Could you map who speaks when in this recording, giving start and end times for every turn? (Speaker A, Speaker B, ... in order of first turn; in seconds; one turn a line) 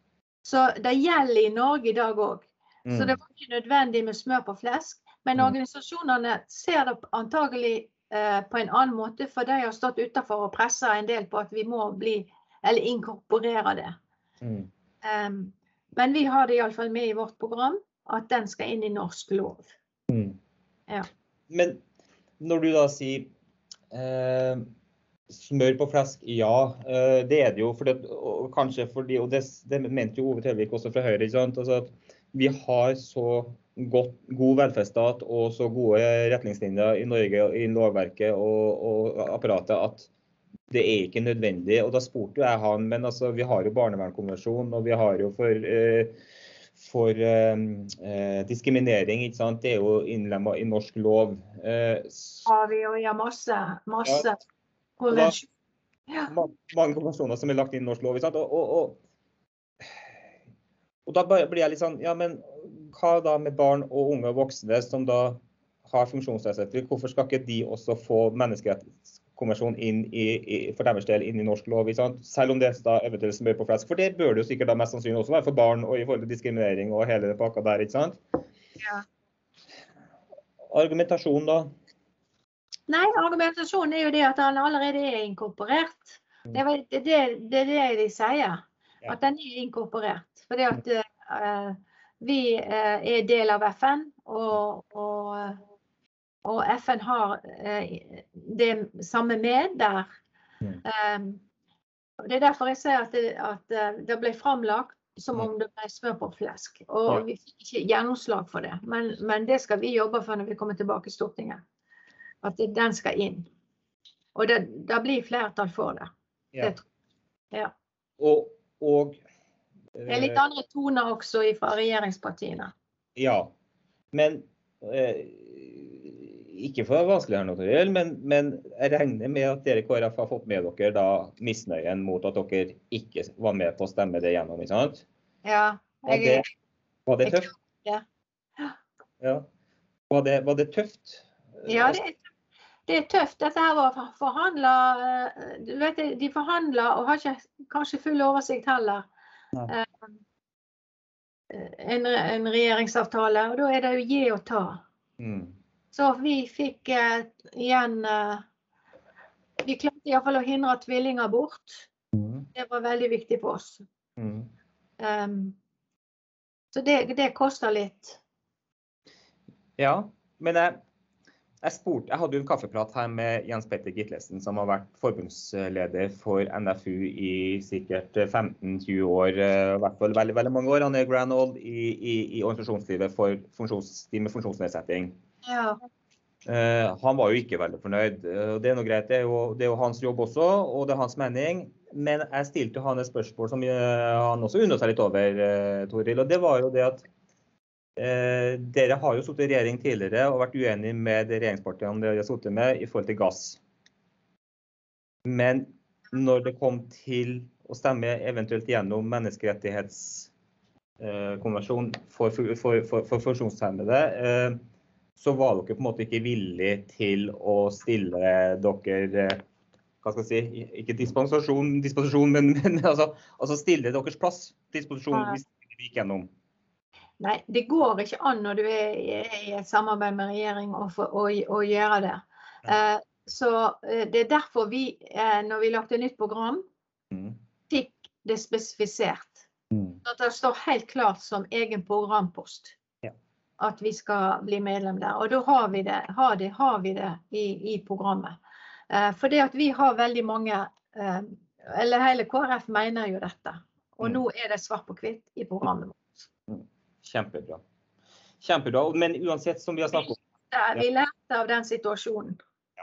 Speaker A: 0.4-13.9
Speaker B: 2.9-3.2
Speaker B: 14.4-14.7
Speaker A: 15.0-19.7
Speaker B: 20.1-20.4
Speaker B: 21.5-21.8
Speaker B: 22.4-23.3
Speaker B: 23.9-24.7
Speaker B: 25.3-40.1
Speaker B: 40.7-46.1
Speaker B: 46.8-52.5
Speaker A: 52.5-54.4
Speaker A: 55.0-55.5
Speaker B: 55.1-55.4
Speaker B: 56.3-59.0
Speaker B: 61.1-78.2
Speaker A: 78.8-79.0
Speaker B: 80.7-81.7
Speaker A: 82.9-95.6
Speaker A: 96.4-100.1
Speaker A: 100.8-101.4
Speaker A: 102.2-111.6
Speaker A: 112.4-113.5
Speaker A: 114.3-116.8
Speaker B: 118.2-119.2
Speaker B: 120.0-120.4
Speaker A: 120.1-122.7
Speaker B: 123.2-123.5
Speaker B: 124.1-135.0
Speaker A: 135.4-136.5
Speaker B: 136.1-136.4
Speaker B: 137.1-137.5
Speaker A: 137.2-138.0
Speaker B: 139.2-139.5
Speaker B: 140.1-142.0
Speaker A: 141.7-142.2
Speaker A: 142.9-149.1
Speaker A: 149.7-150.2
Speaker A: 151.5-154.8
Speaker B: 155.2-155.5
Speaker A: 155.9-158.4
Speaker A: 159.6-161.9
Speaker B: 162.1-162.5
Speaker A: 162.5-163.8
Speaker B: 164.2-164.5
Speaker A: 165.0-165.6
Speaker A: 166.7-168.2
Speaker B: 169.8-170.8
Speaker B: 171.6-185.1
Speaker A: 185.4-185.8
Speaker B: 186.4-197.1
Speaker B: 198.0-203.6
Speaker B: 205.2-210.3
Speaker B: 211.0-214.6
Speaker B: 215.2-219.4
Speaker B: 220.0-226.3
Speaker A: 225.1-225.4
Speaker A: 227.2-236.6
Speaker B: 237.1-237.4
Speaker A: 237.7-239.5
Speaker B: 239.7-240.0
Speaker A: 240.0-242.8
Speaker A: 243.6-248.4
Speaker A: 248.9-256.1
Speaker B: 256.5-257.6
Speaker B: 258.4-260.2
Speaker A: 260.5-262.4